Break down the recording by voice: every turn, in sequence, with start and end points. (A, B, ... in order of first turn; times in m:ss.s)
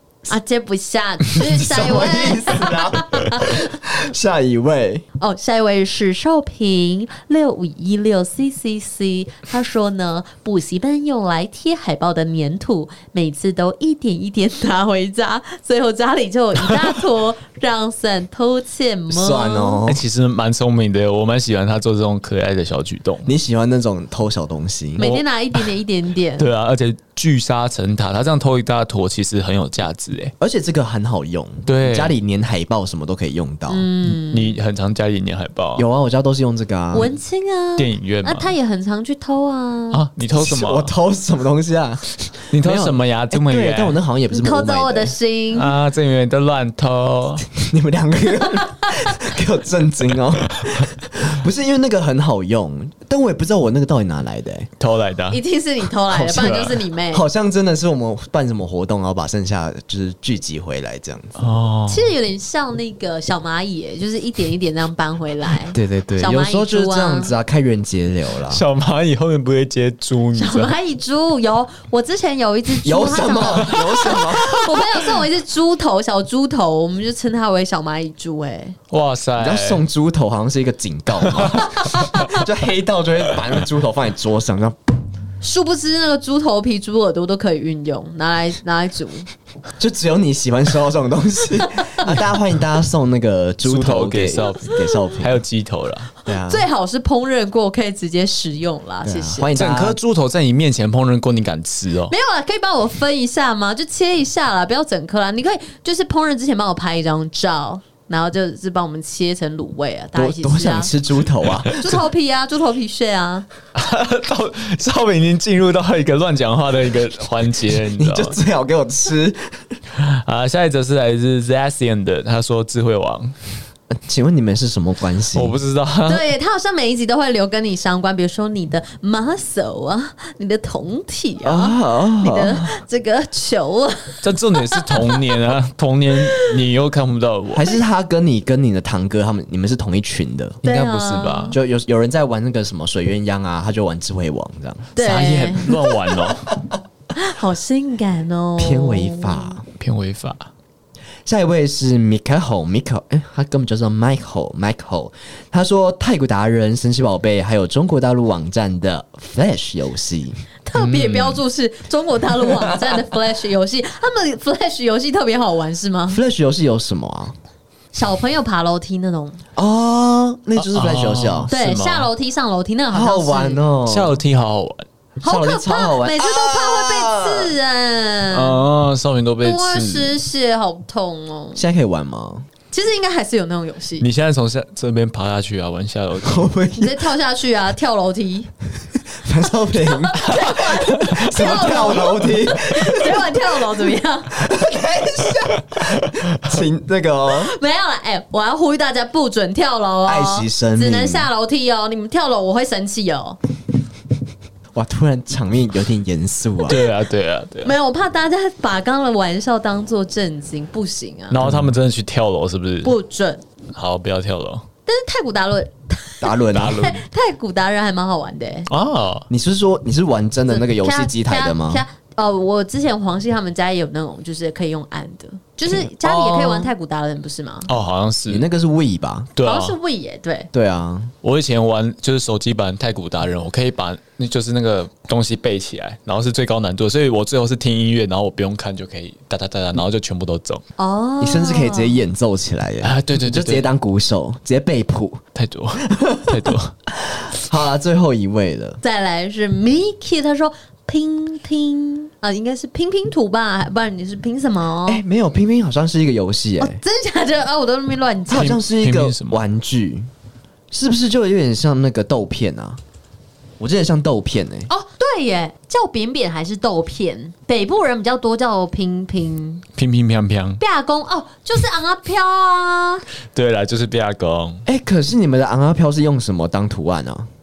0:00.3-0:03.7 A
0:01.4-0:05.0 B
0:05.2-0:19.8 A
0:19.1-0:20.0 B
0:19.9-0:23.3 C
0:23.2-0:25.1 B
0:25.0-0:26.4 A
0:25.0-0:25.7 C
0:26.4-0:30.3 C
0:30.4-0:33.9 B
0:31.6-0:32.1 C
0:33.7-0:34.6 A
0:34.1-0:35.8 C
0:35.8-0:37.1 B
0:36.9-0:40.0 A
0:37.8-0:38.5 C
0:39.9-0:40.9 C
0:40.4-0:45.2 B
0:42.5-0:44.0 C
0:44.3-0:45.7 A
0:45.5-0:47.4 C
0:47.4-0:54.7 B
0:54.8-0:55.4 C
0:55.3-0:57.2 A
0:56.1-1:01.4 B
1:01.4-1:02.1 C
1:01.9-1:07.3 A
1:05.7-1:08.6 B
1:08.5-1:10.7 C
1:10.3-1:18.8 A
1:12.8-1:15.0 B
1:13.6-1:14.2 C
1:18.9-1:19.8 C
1:19.4-1:24.8 B
1:21.2-1:21.6 C
1:21.7-1:22.4 A
1:25.4-1:29.3 A
1:29.8-1:35.4 B
1:33.6-1:36.1 C
1:36.2-1:36.6 B
1:36.2-1:39.5 A
1:39.0-1:40.0 B
1:39.6-1:42.1 C
1:42.1-1:50.9 A
1:50.1-1:51.8 B
1:51.6-1:52.0 C
1:51.7-1:53.5 A
1:53.7-1:58.4 C
1:58.0-1:59.8 B
1:59.9-2:03.3 C
2:03.9-2:05.5 B
2:05.3-2:06.3 C
2:06.1-2:15.5 A
2:11.4-2:12.7 B
2:14.2-2:17.7 C
2:16.2-2:16.5 A
2:17.5-2:20.6 B
2:20.6-2:21.6 C
2:20.6-2:21.6 A
2:21.5-2:24.9 B
2:24.9-2:26.1 A
2:25.0-2:26.5 C
2:27.1-2:29.6 A
2:28.6-2:29.6 B
2:29.8-2:30.5 C
2:31.2-2:41.4 B
2:40.7-2:46.2 A
2:42.5-2:43.0 B
2:46.1-2:47.3 B
2:47.9-2:49.4 A
2:49.6-2:51.5 B
2:50.6-2:52.1 C
2:51.5-2:53.6 A
2:52.9-2:54.2 B
2:53.9-2:54.8 C
2:55.2-2:57.5 B
2:55.2-2:58.6 A
2:58.3-3:00.1 C
2:59.4-3:01.6 A
3:01.5-3:02.4 B
3:02.7-3:04.1 A
3:04.0-3:06.5 C
3:06.2-3:07.0 B
3:06.8-3:08.5 A
3:09.1-3:13.6 B
3:09.7-3:14.4 A
3:10.3-3:12.2 C
3:14.3-3:17.5 B
3:17.3-3:23.4 A
3:20.0-3:21.3 B
3:24.7-3:26.8 B
3:26.7-3:27.7 C
3:27.6-3:31.4 A
3:31.3-3:32.9 C
3:31.4-3:31.7 B
3:32.8-3:33.4 A
3:33.7-3:34.6 C
3:34.8-3:38.7 A
3:36.2-3:36.9 B
3:36.5-3:37.0 C
3:38.7-3:39.3 C
3:39.3-3:41.8 B
3:40.5-3:47.7 A
3:45.7-3:46.7 C
3:47.7-3:48.4 C
3:48.3-3:49.3 B
3:49.3-3:49.8 C
3:49.4-3:50.5 A
3:50.5-3:51.1 B
3:51.2-4:00.6 C
4:00.8-4:02.0 A
4:01.2-4:05.2 B
4:02.8-4:03.7 C
4:05.3-4:06.7 C
4:05.8-4:08.8 B
4:08.8-4:15.0 A
4:14.8-4:16.8 B
4:16.6-4:18.5 A
4:18.3-4:20.1 B
4:18.3-4:19.4 C
4:20.7-4:22.8 B
4:23.6-4:24.7 B
4:24.7-4:29.6 A
4:29.8-4:30.6 C
4:30.6-4:33.0 A
4:33.3-4:34.6 C
4:34.6-4:37.3 B